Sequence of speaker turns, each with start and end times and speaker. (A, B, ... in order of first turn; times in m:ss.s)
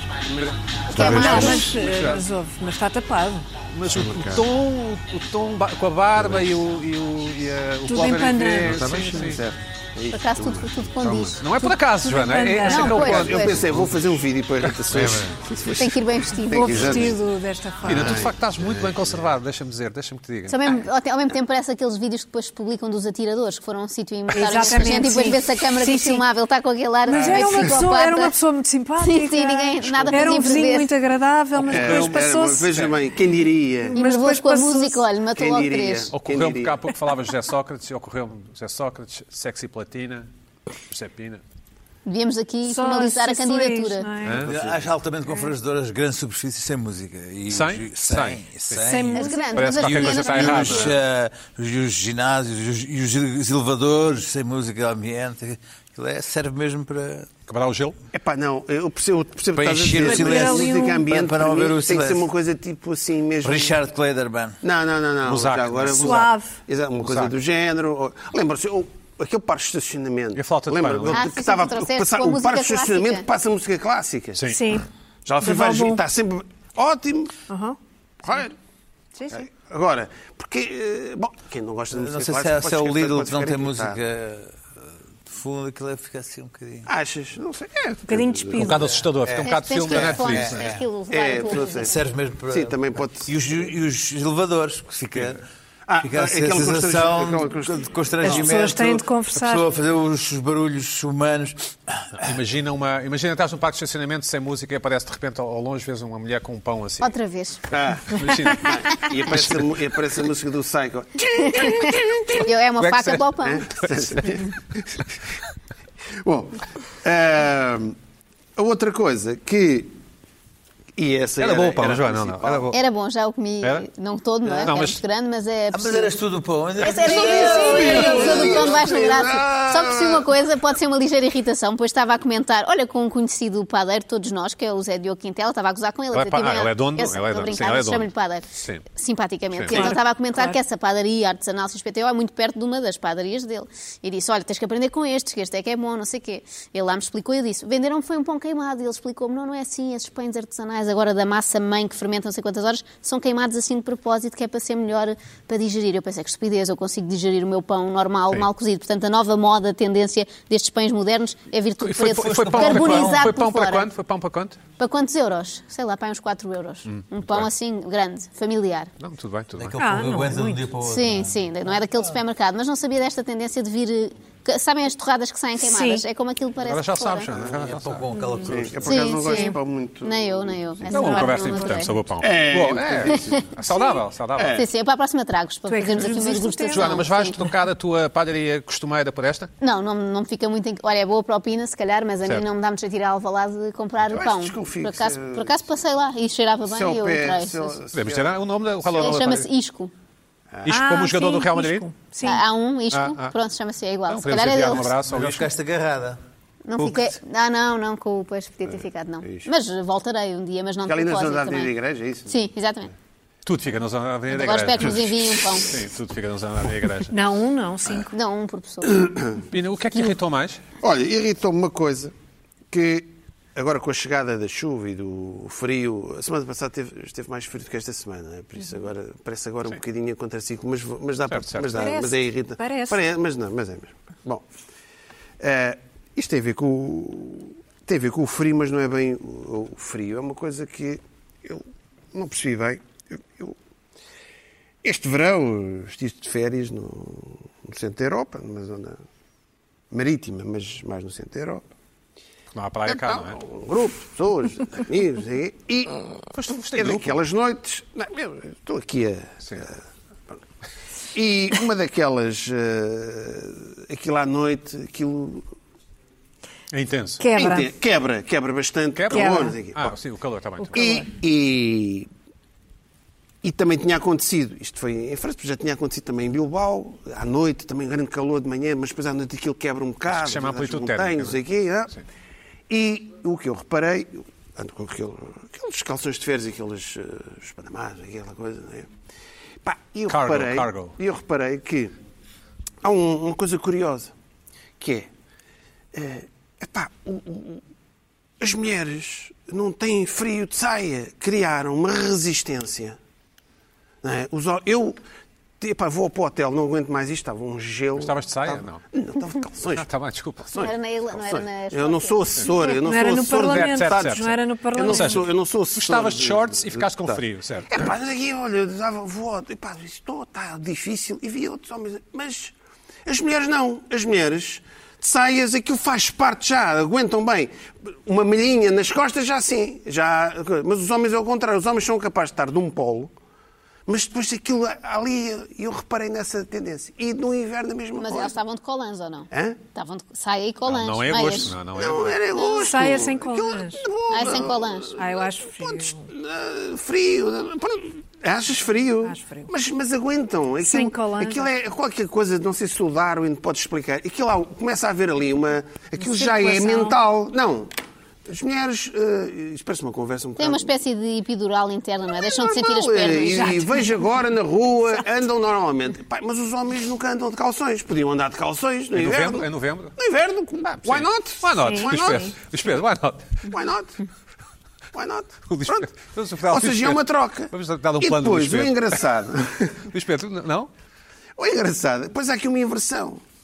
0:00.3-0:02.2 A
0:00.4-0:01.7 B
0:00.9-0:01.7 C
0:01.0-0:03.5 D
0:03.7-0:09.4 A
0:03.9-0:04.5 B
0:07.9-0:08.8 D
0:08.6-0:11.4 B
0:10.1-0:11.5 C
0:11.4-0:15.3 A
0:12.0-0:13.1 D
0:12.5-0:13.6 C
0:12.9-0:17.2 B
0:15.7-0:17.1 C
0:16.5-0:18.3 D
0:17.8-0:19.3 B
0:17.8-0:20.7 A
0:20.5-0:28.3 C
0:24.3-0:26.2 D
0:27.1-0:32.8 D
0:27.1-0:27.6 A
0:29.0-0:30.9 C
0:31.6-0:32.9 A
0:31.6-0:34.0 B
0:33.9-0:35.0 D
0:34.0-0:36.1 C
0:35.4-0:36.8 B
0:36.1-0:40.3 A
0:40.9-0:41.4 A
0:42.0-0:44.1 C
0:42.7-0:44.5 D
0:44.2-0:44.6 A
0:44.4-0:57.3 E
0:44.5-0:44.8 B
0:47.5-0:51.0 A
0:48.8-0:49.8 D
0:49.2-0:51.0 C
0:57.5-0:58.0 A
0:58.1-1:03.8 B
0:59.5-1:02.2 E
1:00.0-1:01.0 D
1:03.4-1:04.6 E
1:04.6-1:14.4 B
1:05.2-1:06.3 A
1:05.9-1:06.5 D
1:07.0-1:07.3 A
1:10.4-1:11.2 A
1:11.1-1:13.3 C
1:14.4-1:14.7 A
1:14.5-1:14.9 D
1:15.3-1:17.4 B
1:15.4-1:16.0 D
1:17.5-1:17.8 D
1:18.2-1:18.6 B
1:19.2-1:19.5 D
1:19.3-1:24.0 B
1:21.9-1:24.6 E
1:25.3-1:26.9 E
1:26.9-1:28.7 B
1:28.1-1:29.0 D
1:28.6-1:30.7 A
1:28.9-1:30.8 E
1:29.4-1:32.0 C
1:31.1-1:33.7 B
1:31.7-1:35.4 E
1:35.1-1:35.4 A
1:35.9-1:38.6 B
1:36.0-1:42.2 E
1:38.2-1:39.7 D
1:42.2-1:47.1 A
1:47.0-1:47.6 C
1:47.7-1:52.5 B
1:48.1-1:49.6 A
1:51.4-1:53.8 C
1:52.8-1:53.3 A
1:53.4-1:55.1 B
1:53.8-1:54.4 A
1:56.2-1:58.0 B
1:58.6-2:00.0 B
2:01.0-2:02.7 B
2:01.4-2:02.8 A
2:02.7-2:06.2 C
2:04.4-2:04.7 B
2:04.6-2:05.0 A
2:05.7-2:08.9 E
2:06.8-2:43.9 C
2:06.8-2:10.3 B
2:16.1-2:18.8 A
2:19.5-2:19.9 A
2:19.7-2:20.6 D
2:41.8-2:44.6 A
2:42.0-2:43.3 E
2:44.8-2:48.9 C
2:46.9-2:47.5 A
2:49.0-2:49.8 A
2:49.6-2:52.1 E
2:49.8-2:50.6 D
2:50.8-2:57.3 C
2:55.6-2:56.0 D
2:56.6-2:58.1 A
2:57.5-2:59.3 E
2:58.2-2:58.5 D
2:58.4-3:01.3 B
2:58.8-3:01.9 C
3:00.9-3:04.6 A
3:01.1-3:01.6 D
3:02.2-3:03.6 B
3:03.1-3:03.4 C
3:04.4-3:04.7 B
3:04.5-3:07.4 C
3:05.7-3:07.1 D
3:06.7-3:09.5 A
3:09.6-3:17.8 C
3:14.0-3:15.6 B
3:16.7-3:19.2 B
3:17.9-3:19.5 A
3:18.9-3:19.9 C
3:20.6-3:21.9 A
3:20.7-3:22.4 D
3:22.2-3:25.0 C
3:22.9-3:23.3 A
3:24.1-3:25.5 A
3:25.0-3:26.2 E
3:26.6-3:31.7 C
3:26.8-3:27.2 E
3:29.2-3:29.5 B
3:30.9-3:32.4 B
3:32.3-3:32.9 C
3:33.5-3:37.2 A
3:34.3-3:35.8 C
3:37.1-3:38.1 D
3:38.1-3:39.1 C
3:39.0-3:39.4 B
3:39.5-3:40.6 A
3:40.8-3:42.1 B
3:42.7-3:54.5 B
3:51.3-3:51.8 A
3:51.7-3:53.0 D
3:55.4-4:03.6 B
4:04.8-4:09.0 B
4:09.9-4:11.7 B
4:12.5-4:13.4 A
4:12.9-4:16.1 B
4:16.3-4:17.2 A
4:16.7-4:19.8 B
4:21.1-4:25.5 B
4:26.7-4:27.3 A
4:27.2-4:27.7 D
4:27.4-4:30.0 B
4:29.0-4:30.9 A
4:29.1-4:29.6 D
4:30.7-4:31.0 D
4:30.7-4:32.1 B
4:33.4-4:41.9 B
4:40.1-4:41.4 A
4:42.7-4:48.9 B
4:49.6-4:51.9 B
4:50.1-4:51.0 A
4:52.8-4:54.1 B
4:54.8-4:55.1 B
4:55.9-4:57.6 B
4:58.4-5:03.0 B
5:04.0-5:05.0 B
5:05.6-5:09.9 B
5:08.0-5:08.8 A
5:09.7-5:10.6 A
5:10.5-5:22.6 B
5:10.6-5:12.7 C
5:12.7-5:15.2 D
5:13.4-5:17.8 A
5:23.1-5:33.1 B
5:33.9-5:38.4 B
5:38.0-5:41.6 C
5:39.3-5:39.6 B
5:40.7-5:42.2 A
5:41.7-5:57.7 B
5:42.4-5:43.9 D
5:44.1-5:45.0 C
5:44.9-5:46.1 D
5:49.0-5:49.5 D
5:50.6-5:51.5 D
5:56.0-5:57.0 D
5:58.3-6:00.7 B
6:00.4-6:03.6 C
6:02.1-6:12.3 B
6:03.4-6:03.9 D
6:08.9-6:10.0 A
6:10.8-6:13.5 A
6:11.6-6:12.4 D
6:13.4-6:14.0 B
6:14.9-6:15.9 B
6:15.5-6:19.0 A
6:16.5-6:19.9 B
6:19.9-6:20.7 A
6:21.4-6:23.2 B